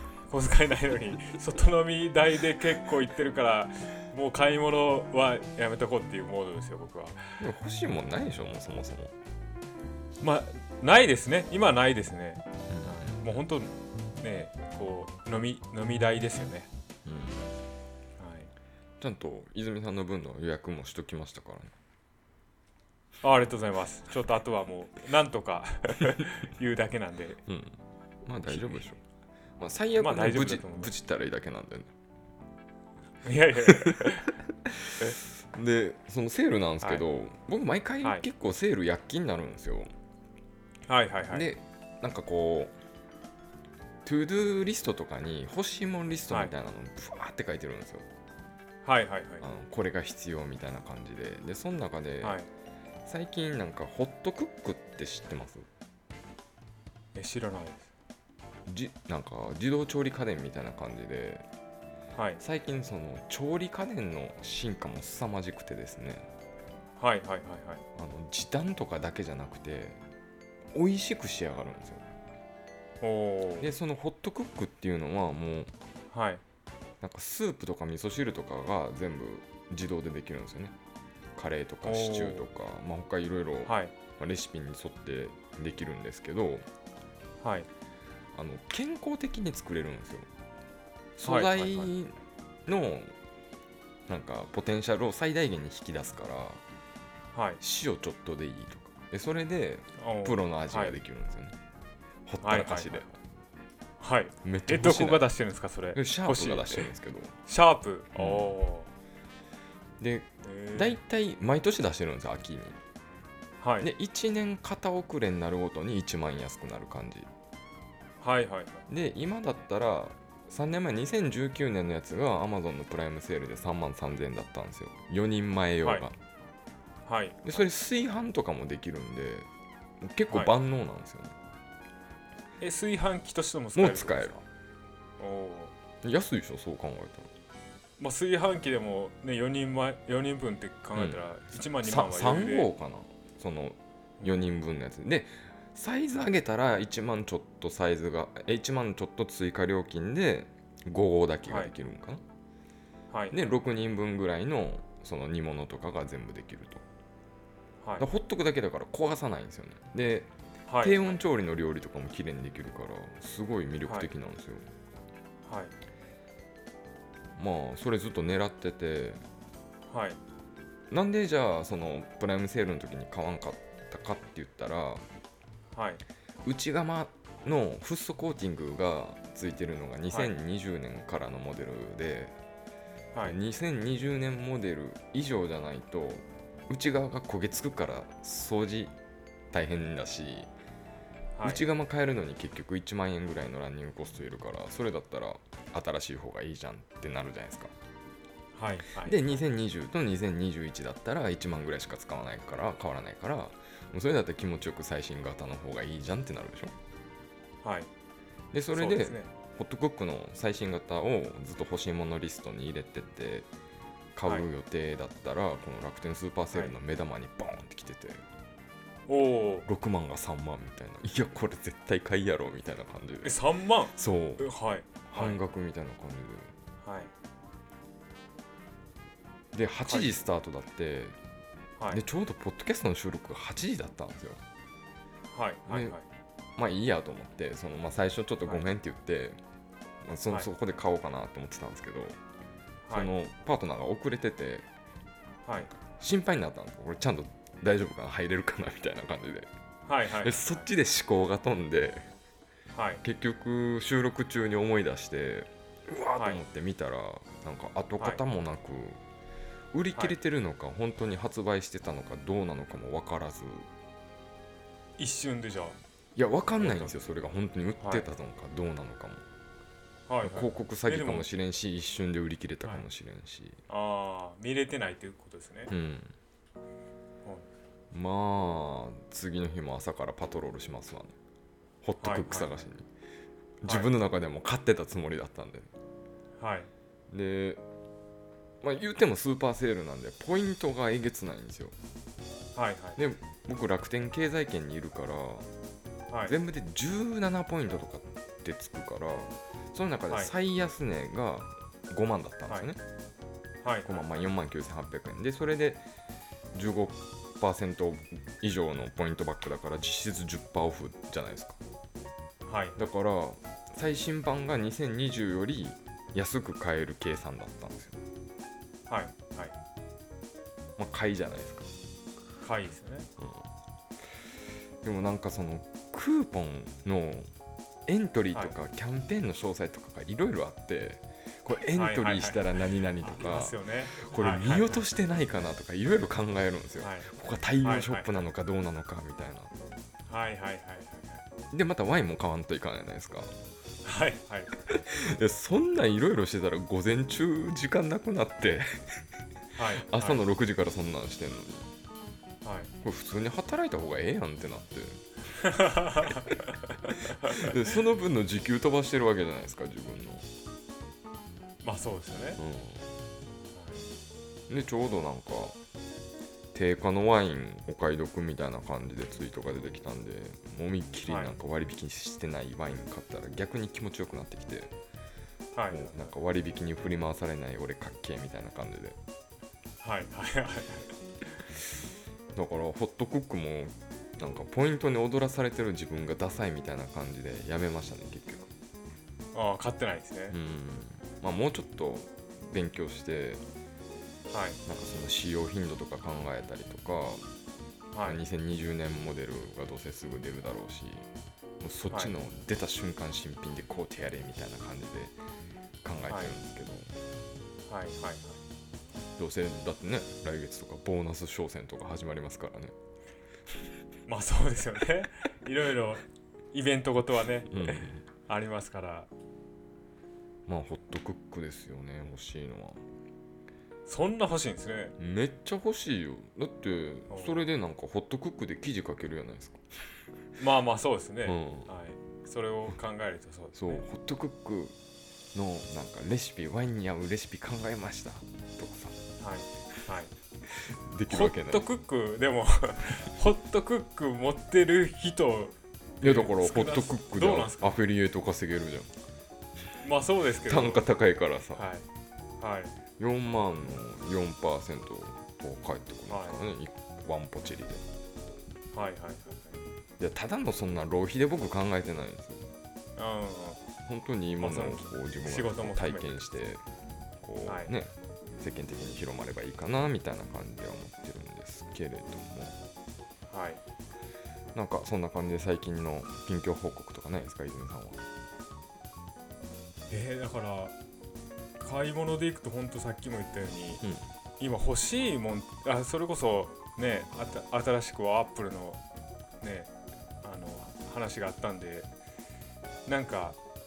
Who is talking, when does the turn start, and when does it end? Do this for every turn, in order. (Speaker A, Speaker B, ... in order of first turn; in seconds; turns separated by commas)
Speaker A: 0.3-7.4, Speaker B: 7.4-9.1, Speaker A: 10.2-16.7, Speaker B: 12.7-13.2, Speaker B: 17.1-17.4, Speaker A: 18.2-18.5, Speaker B: 19.0-21.7, Speaker A: 23.2-27.4, Speaker B: 27.5-29.0, Speaker A: 28.5-28.8, Speaker B: 29.6-31.9, Speaker A: 30.0-30.9, Speaker A: 33.2-34.3, Speaker B: 34.8-39.9, Speaker A: 40.9-41.5, Speaker B: 41.3-42.7, Speaker B: 44.0-48.0, Speaker A: 48.8-49.5, Speaker B: 49.4-52.4, Speaker A: 52.2-52.5, Speaker B: 53.0-55.7, Speaker A: 57.1-57.9, Speaker B: 58.7-61.5, Speaker A: 62.1-62.4, Speaker B: 62.4-66.3, Speaker A: 67.0-67.8, Speaker B: 67.9-70.0, Speaker B: 70.7-72.0, Speaker A: 73.0-73.7, Speaker B: 73.6-75.7, Speaker A: 76.1-76.4, Speaker B: 77.0-80.7, Speaker B: 81.3-86.7, Speaker A: 81.8-82.5, Speaker A: 83.7-83.9, Speaker A: 87.4-87.7, Speaker B: 88.3-90.3, Speaker B: 91.2-92.2, Speaker A: 91.2-91.9, Speaker B: 92.7-93.1, Speaker B: 94.1-96.6, Speaker A: 97.3-97.6, Speaker B: 97.6-101.5, Speaker A: 100.0-101.0, Speaker B: 102.2-103.1, Speaker A: 102.4-103.1, Speaker A: 104.0-106.9, Speaker B: 104.4-105.3, Speaker B: 105.9-107.3, Speaker A: 107.5-108.9, Speaker B: 108.2-108.5, Speaker B: 110.0-112.8, Speaker A: 110.4-111.0, Speaker A: 113.6-113.9, Speaker B: 113.8-117.3, Speaker A: 118.2-118.8, Speaker B: 118.9-126.1, Speaker A: 127.0-127.6, Speaker B: 127.4-129.5, Speaker B: 130.0-131.3, Speaker A: 130.3-130.6, Speaker A: 132.6-134.4, Speaker B: 133.7-134.4, Speaker A: 135.2-135.7, Speaker B: 136.0-137.3, Speaker A: 138.0-142.7, Speaker B: 140.9-141.2, Speaker B: 141.8-152.2, Speaker A: 151.4-151.7, Speaker A: 153.1-153.3, Speaker B: 153.3-156.8, Speaker B: 158.0-160.3, Speaker A: 160.7-161.2, Speaker B: 160.8-164.6, Speaker A: 165.4-165.7, Speaker B: 167.3-169.2, Speaker A: 169.9-170.2, Speaker B: 170.9-175.0, Speaker A: 175.7-176.0, Speaker B: 176.4-182.3, Speaker B: 183.2-188.9, Speaker B: 189.5-190.5, Speaker A: 191.3-191.6, Speaker B: 191.4-197.7, Speaker A: 198.5-199.4, Speaker B: 199.0-206.7, Speaker A: 207.6-207.9, Speaker B: 208.5-213.5, Speaker A: 208.7-209.3, Speaker B: 214.1-218.2, Speaker A: 214.2-214.5, Speaker A: 216.5-216.8, Speaker A: 219.1-219.7, Speaker B: 219.7-223.4, Speaker A: 223.2-225.4, Speaker B: 223.9-224.4, Speaker B: 225.0-226.5, Speaker A: 226.8-227.1, Speaker B: 229.5-231.2, Speaker A: 229.8-230.2, Speaker B: 231.9-234.4, Speaker A: 235.3-236.0, Speaker B: 235.7-236.0, Speaker B: 236.6-239.4, Speaker B: 240.0-242.2, Speaker A: 242.8-243.1, Speaker B: 242.9-244.7, Speaker A: 245.4-245.7, Speaker B: 246.0-249.5, Speaker A: 249.9-250.7, Speaker B: 250.2-252.1, Speaker A: 252.7-253.0, Speaker B: 253.0-259.0, Speaker A: 256.1-256.4, Speaker B: 259.7-263.7, Speaker A: 265.0-265.8, Speaker B: 266.1-269.2, Speaker A: 266.6-267.1, Speaker A: 267.8-268.1, Speaker A: 270.1-271.3, Speaker B: 270.2-273.6, Speaker A: 273.7-275.7, Speaker B: 275.7-276.1, Speaker B: 277.9-281.1, Speaker B: 281.8-282.9, Speaker A: 282.0-282.6, Speaker B: 283.6-285.7, Speaker A: 283.6-283.9, Speaker A: 286.4-286.7, Speaker B: 287.1-287.6, Speaker B: 288.6-291.7, Speaker A: 292.5-293.0, Speaker B: 293.0-295.5, Speaker A: 296.1-296.4, Speaker B: 296.2-302.8, Speaker A: 303.6-304.3, Speaker B: 303.9-305.8, Speaker B: 306.5-311.6, Speaker A: 312.4-312.8, Speaker B: 312.8-318.0, Speaker A: 318.9-319.6, Speaker B: 320.8-321.7, Speaker A: 322.4-323.1, Speaker B: 324.8-327.3, Speaker B: 327.9-339.5, Speaker A: 331.7-334.8, Speaker A: 336.8-337.1, Speaker A: 337.6-338.1, Speaker A: 340.1-341.2, Speaker B: 341.5-343.3, Speaker A: 343.8-344.5, Speaker B: 344.7-348.6, Speaker A: 349.5-350.2, Speaker B: 349.8-351.7, Speaker A: 352.4-352.7, Speaker B: 352.8-355.0, Speaker A: 355.4-356.2, Speaker B: 355.9-360.3, Speaker A: 361.6-362.4, Speaker B: 362.4-362.8, Speaker A: 363.5-363.9, Speaker B: 364.5-365.6, Speaker B: 366.5-374.7, Speaker A: 371.1-371.3, Speaker A: 375.5-376.1, Speaker B: 375.7-379.0, Speaker A: 379.8-380.9, Speaker B: 382.3-388.5, Speaker A: 389.3-390.4, Speaker B: 390.3-393.4, Speaker A: 394.3-394.6, Speaker B: 394.6-397.2, Speaker A: 397.9-398.2, Speaker B: 398.0-401.1, Speaker B: 401.6-405.1, Speaker B: 405.8-406.9, Speaker A: 406.1-406.4, Speaker A: 407.7-408.4, Speaker B: 409.2-412.7, Speaker A: 414.1-419.1, Speaker B: 417.5-418.0, Speaker B: 420.5-422.8, Speaker A: 423.9-424.9, Speaker B: 425.0-429.6, Speaker A: 427.1-427.4, Speaker A: 430.4-433.9, Speaker B: 431.2-431.7, Speaker B: 433.5-434.7, Speaker B: 435.3-439.0, Speaker A: 439.2-440.1, Speaker B: 440.7-441.7, Speaker A: 441.1-447.8, Speaker B: 446.0-448.9, Speaker A: 449.8-450.9, Speaker B: 450.4-451.6, Speaker A: 451.5-451.9, Speaker A: 452.4-452.7, Speaker B: 453.0-457.8, Speaker A: 456.1-456.4, Speaker A: 458.7-459.6, Speaker B: 460.0-462.4, Speaker A: 463.0-463.6, Speaker B: 463.9-466.6, Speaker A: 464.4-466.2, Speaker B: 467.2-472.6, Speaker A: 467.4-467.7, Speaker A: 473.3-473.6, Speaker B: 474.5-478.0, Speaker A: 479.9-480.8, Speaker A: 481.6-483.8, Speaker A: 484.4-488.8, Speaker A: 489.4-489.7, Speaker A: 490.2-491.9, Speaker A: 492.9-493.4